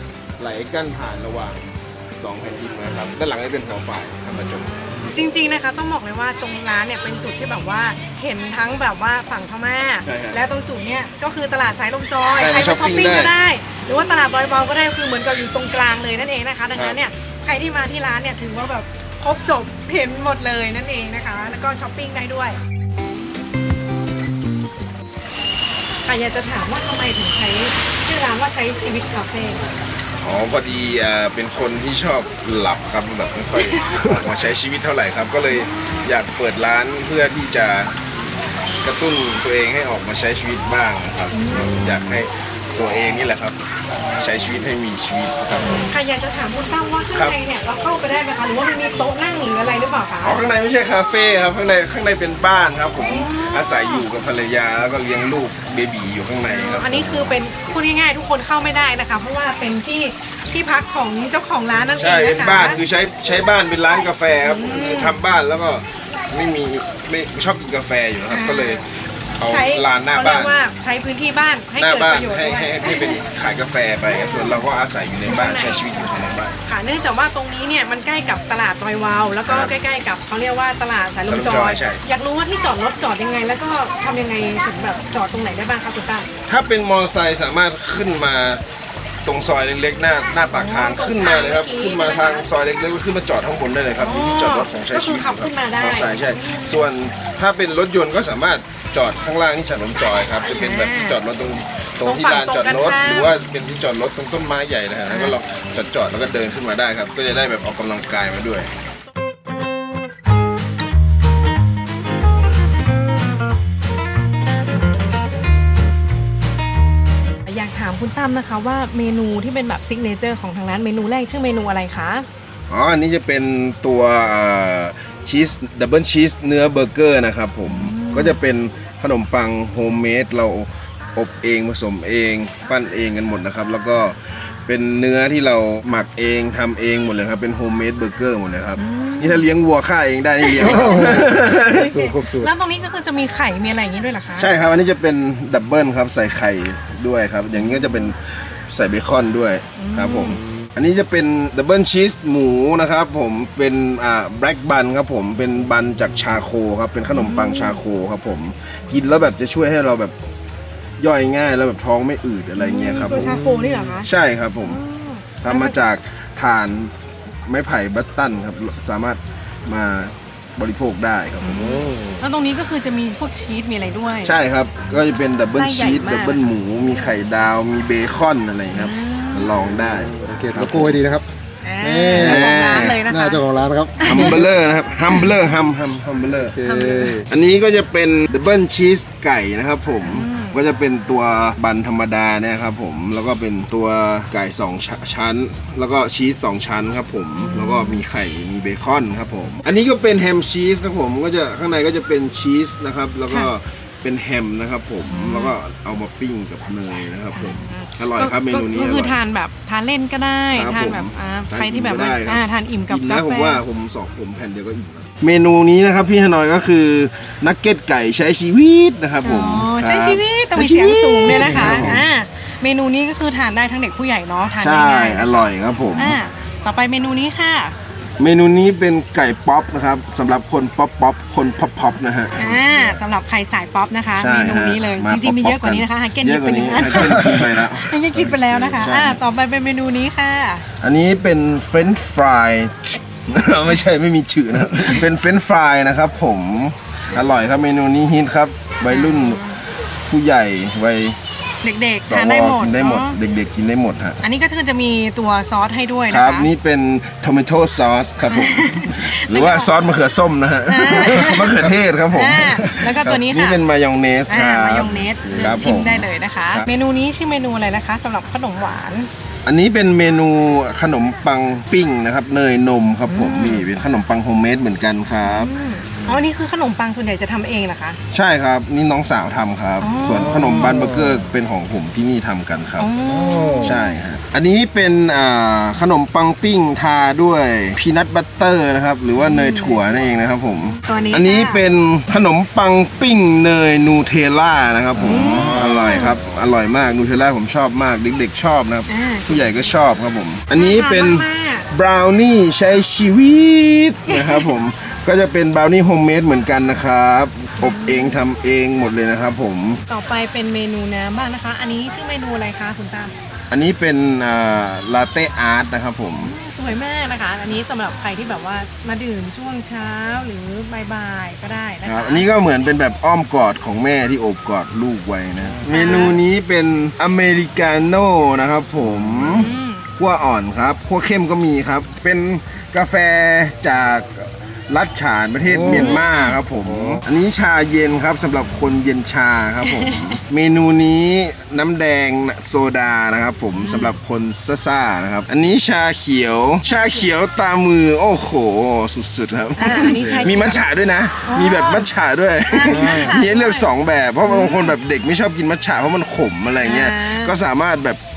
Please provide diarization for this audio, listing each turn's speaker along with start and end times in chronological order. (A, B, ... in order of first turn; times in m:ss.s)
0:00.4-0:05.1 A
0:05.1-0:22.6 B
0:10.0-0:10.4 A
0:12.4-0:13.3 A
0:26.0-0:29.7 B
0:30.2-0:37.9 A
0:35.5-0:36.1 B
0:38.8-0:45.9 A
0:41.3-0:42.0 B
0:45.6-0:50.4 B
0:50.2-0:57.3 A
0:53.0-0:54.0 B
0:56.5-1:02.8 B
1:02.0-1:08.8 A
1:04.4-1:05.1 B
1:08.3-1:08.8 B
1:09.4-1:10.5 A
1:09.4-1:13.2 B
1:11.8-1:16.6 A
1:14.1-1:14.6 B
1:15.2-1:26.3 B
1:19.4-1:19.7 A
1:21.2-1:22.0 A
1:26.5-1:28.6 A
1:29.2-1:48.7 A
1:30.5-1:32.5 B
1:34.0-1:36.8 B
1:40.4-1:41.2 B
1:42.0-1:43.3 B
1:45.1-1:45.4 B
1:57.4-2:02.3 B
2:02.7-2:22.0 A
2:07.6-2:08.4 B
2:18.8-2:19.4 B
2:20.4-2:24.5 B
2:20.7-2:21.3 C
2:21.8-2:22.5 C
2:24.4-2:40.1 A
2:29.8-2:30.4 B
2:37.1-2:37.8 B
2:41.0-2:44.8 A
2:42.6-2:44.1 B
2:43.3-2:43.9 C
2:44.6-2:45.8 B
2:45.4-2:46.9 A
2:47.4-2:51.8 A
2:51.4-2:54.4 B
2:51.6-2:52.2 C
2:54.2-3:01.0 A
2:55.5-2:57.1 B
2:58.7-2:59.6 B
2:59.9-3:01.2 C
3:01.6-3:03.4 B
3:01.8-3:04.5 C
3:02.2-3:03.0 A
3:04.0-3:04.4 B
3:04.0-3:06.6 A
3:05.0-3:05.3 B
3:06.4-3:07.2 C
3:06.6-3:07.2 B
3:07.2-3:29.2 A
3:10.0-3:10.6 B
3:17.5-3:18.0 B
3:25.1-3:25.5 B
3:27.3-3:33.6 B
3:30.5-3:42.1 A
3:39.2-3:47.7 B
3:44.6-3:46.2 A
3:48.2-3:52.9 A
3:52.4-4:00.6 B
3:54.2-3:59.2 A
4:00.8-4:09.4 A
4:08.9-4:09.6 B
4:10.1-4:11.2 A
4:11.6-4:13.2 B
4:12.0-4:14.2 A
4:14.2-4:16.5 B
4:16.1-4:26.7 A
4:18.3-4:19.7 B
4:20.6-4:21.6 B
4:22.1-4:23.6 B
4:24.3-4:29.1 B
4:29.4-4:35.5 A
4:33.1-4:33.7 B
4:35.2-4:38.0 B
4:38.1-4:42.9 A
4:39.8-4:40.8 B
4:42.8-4:43.9 B
4:43.6-5:09.8 A
4:49.2-4:49.8 B
4:50.8-4:51.6 B
4:55.0-4:56.2 B
4:58.9-4:59.4 B
5:00.5-5:01.7 B
5:04.1-5:04.5 B
5:07.6-5:08.2 B
5:09.9-5:13.1 B
5:13.5-5:16.3 A
5:16.2-5:22.3 B
5:21.8-5:58.0 A
5:25.6-5:26.2 B
5:29.2-5:29.8 B
5:35.7-5:36.4 B
5:39.6-5:40.2 B
5:43.6-5:43.9 B
5:46.6-5:47.1 B
5:49.6-5:50.6 B
5:49.9-5:50.2 C
5:51.2-5:51.9 B
5:52.5-5:53.7 B
5:52.7-5:53.2 C
5:54.2-5:54.7 B
5:56.6-5:57.3 B